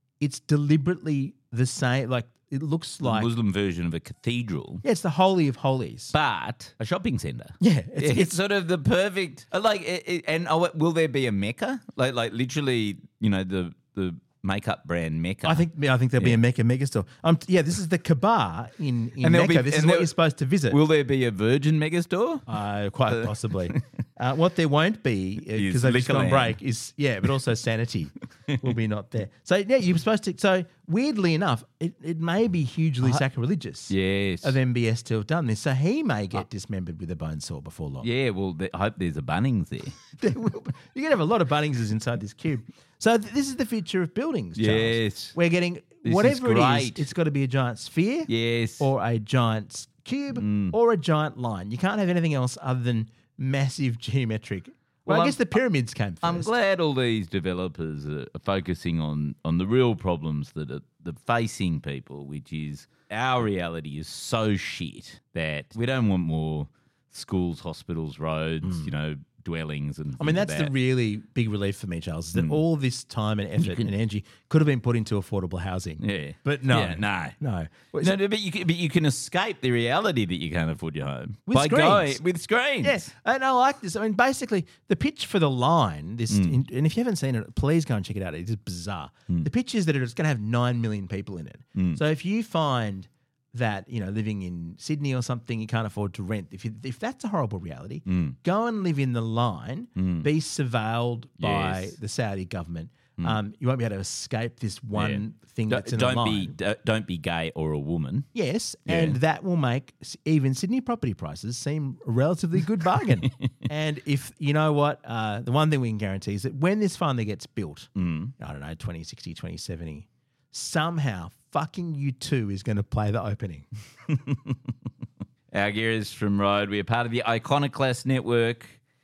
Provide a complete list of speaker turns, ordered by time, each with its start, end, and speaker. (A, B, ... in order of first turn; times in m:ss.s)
0:00.2-0:03.3 A
0:03.0-0:04.8 B
0:04.8-0:06.1 A
0:06.1-0:16.4 B
0:07.6-0:08.4 A
0:15.4-0:20.8 A
0:19.2-0:20.1 B
0:20.7-0:22.5 B
0:22.5-0:38.1 A
0:23.1-0:23.8 B
0:25.5-0:26.6 B
0:33.9-0:34.6 B
0:38.0-0:40.0 B
0:40.2-0:56.5 A
0:44.6-0:45.4 B
0:46.0-0:47.1 B
0:48.3-0:48.9 B
0:50.3-0:50.8 B
0:55.0-0:55.6 B
0:56.2-1:10.7 B
1:08.6-1:08.9 A
1:10.2-1:18.2 A
1:12.3-1:12.6 B
1:13.6-1:13.9 B
1:16.0-1:17.4 B
1:18.0-1:23.0 B
1:21.5-1:22.2 A
1:22.8-1:46.5 A
1:26.3-1:26.6 B
1:31.7-1:32.0 B
1:38.0-1:38.4 B
1:40.0-1:40.3 B
1:41.4-1:42.0 B
1:44.9-1:48.3 B
1:48.3-2:03.7 A
1:48.9-1:49.2 B
1:53.2-1:53.5 B
1:58.0-1:58.3 B
2:04.1-2:04.6 B
2:05.5-2:08.8 B